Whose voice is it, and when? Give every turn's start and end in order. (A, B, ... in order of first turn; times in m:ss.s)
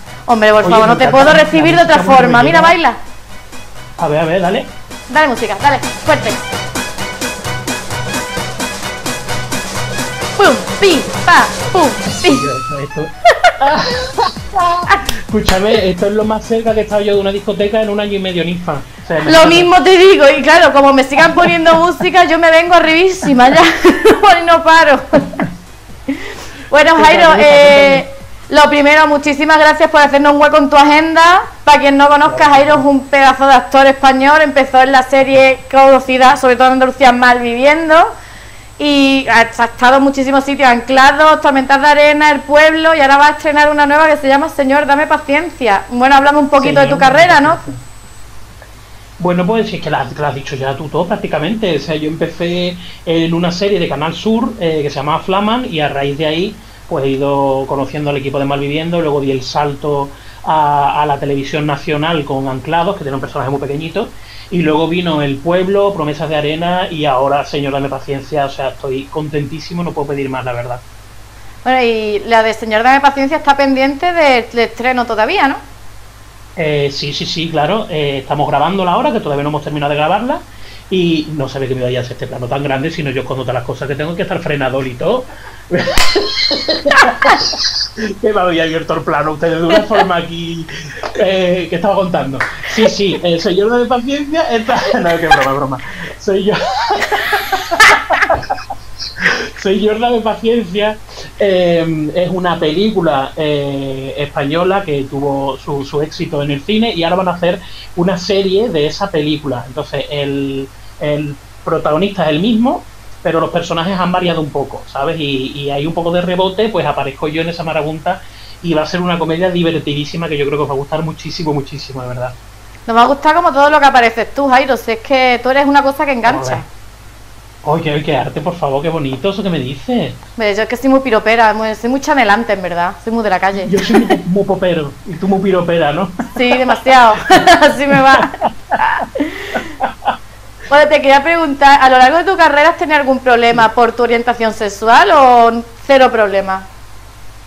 0:00.3-0:03.0 A
0:00.6-0:02.8 B
0:04.0-0:04.7 B
0:05.1-0:06.4 A
0:10.4-0:12.4 A
0:12.2-0:19.7 B
0:19.2-0:25.5 A
0:21.2-0:21.8 B
0:26.1-0:38.1 A
0:26.9-0:28.0 B
0:32.2-0:32.8 B
0:38.8-0:47.6 A
0:46.6-0:47.8 B
0:49.2-1:10.8 B
1:11.6-1:15.6 A
1:16.6-1:38.6 B
1:39.2-2:02.4 B
2:02.9-2:06.6 A
2:06.2-2:06.6 B
2:07.6-2:10.2 B
2:10.4-2:14.1 A
2:13.6-2:16.8 B
2:16.3-2:19.6 A
2:19.8-2:20.1 B
2:20.7-2:26.6 A